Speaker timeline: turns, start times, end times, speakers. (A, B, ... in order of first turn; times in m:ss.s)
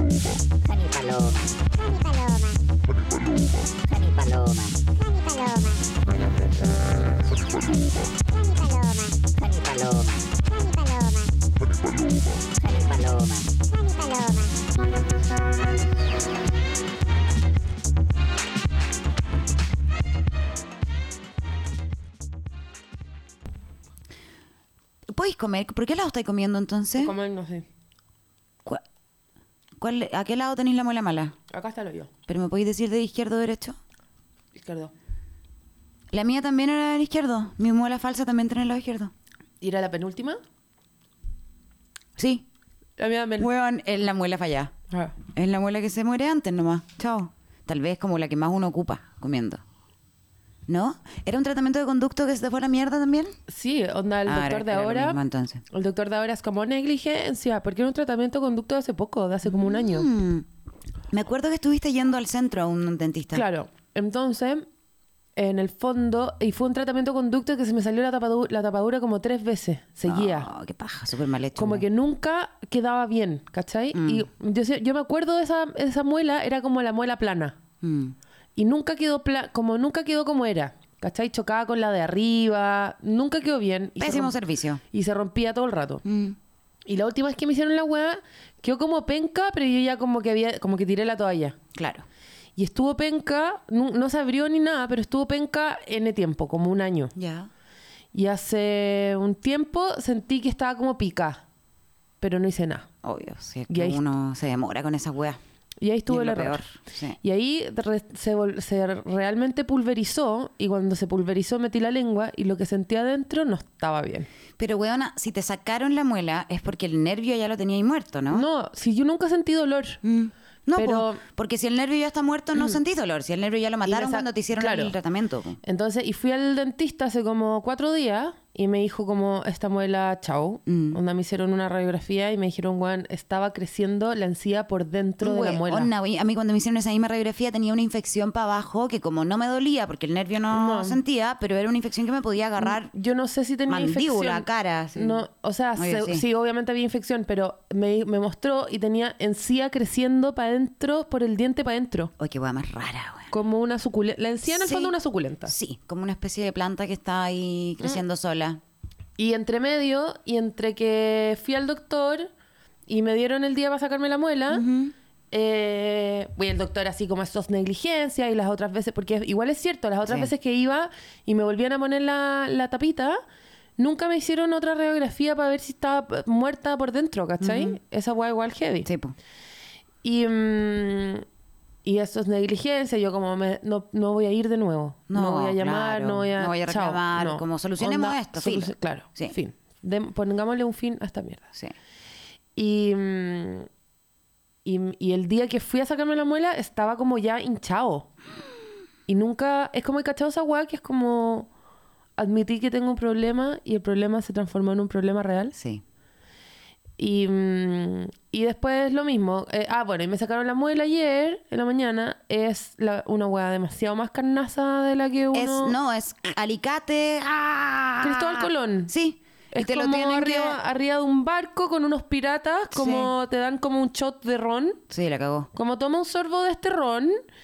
0:00.5-0:05.9 A
0:07.5-0:14.6 A
0:25.1-0:27.1 B
0:27.0-0:27.7 C
0:29.8-0:31.4 B
0:31.5-0:32.1 C
0:32.3-0:33.8 B
0:34.6-0:34.9 C
0:36.1-0:39.1 B
0:39.6-0:40.4 C
0:42.2-0:42.4 B
0:43.0-0:43.5 C
0:43.4-0:44.7 B
0:44.9-0:45.2 C
0:45.2-0:49.6 B
0:50.7-0:53.3 B
0:53.5-0:55.2 C
0:54.2-0:55.6 B
0:55.7-1:00.1 C
0:59.4-1:00.5 B
1:01.1-1:03.5 B
1:03.3-1:04.7 C
1:05.4-1:10.5 C
1:10.1-1:11.8 B
1:11.6-1:17.6 C
1:13.9-1:14.3 B
1:17.8-1:18.2 B
1:18.6-1:24.4 C
1:24.0-1:24.8 B
1:24.9-1:26.0 C
1:26.0-1:26.4 B
1:26.9-1:31.6 C
1:31.7-1:32.1 B
1:32.6-1:37.1 C
1:37.2-1:37.5 B
1:38.1-1:41.4 C
1:42.2-1:42.9 C
1:43.0-1:45.4 B
1:43.7-1:44.0 C
1:45.8-1:46.6 C
1:46.1-1:47.2 B
1:47.2-1:54.3 C
1:54.6-1:58.5 B
1:58.3-2:00.0 C
2:00.0-2:05.6 B
2:00.8-2:01.2 C
2:03.9-2:04.9 C
2:05.6-2:15.9 C
2:10.7-2:11.0 B
2:15.2-2:22.9 B
2:20.5-2:21.0 C
2:22.6-2:32.1 C
2:23.7-2:25.2 B
2:25.8-2:26.2 B
2:32.2-2:33.3 B
2:33.3-2:35.5 C
2:34.5-2:35.0 B
2:35.5-2:38.6 B
2:39.2-2:42.3 C
2:42.9-2:44.6 C
2:44.5-2:44.9 B
2:45.3-2:53.2 C
2:50.1-2:50.3 B
2:53.8-2:58.9 C
2:57.4-2:57.8 B
2:58.8-2:59.2 B
3:00.0-3:01.2 C
3:01.8-3:11.4 C
3:05.1-3:09.4 B
3:12.6-3:13.7 C
3:14.6-3:18.1 C
3:19.1-3:21.5 C
3:22.2-3:25.5 C
3:25.5-3:25.8 B
3:27.0-3:35.8 C
3:35.3-3:40.6 B
3:38.0-3:38.9 C
3:39.5-3:44.8 C
3:42.7-3:43.1 B
3:44.9-3:45.5 B
3:45.5-3:47.2 C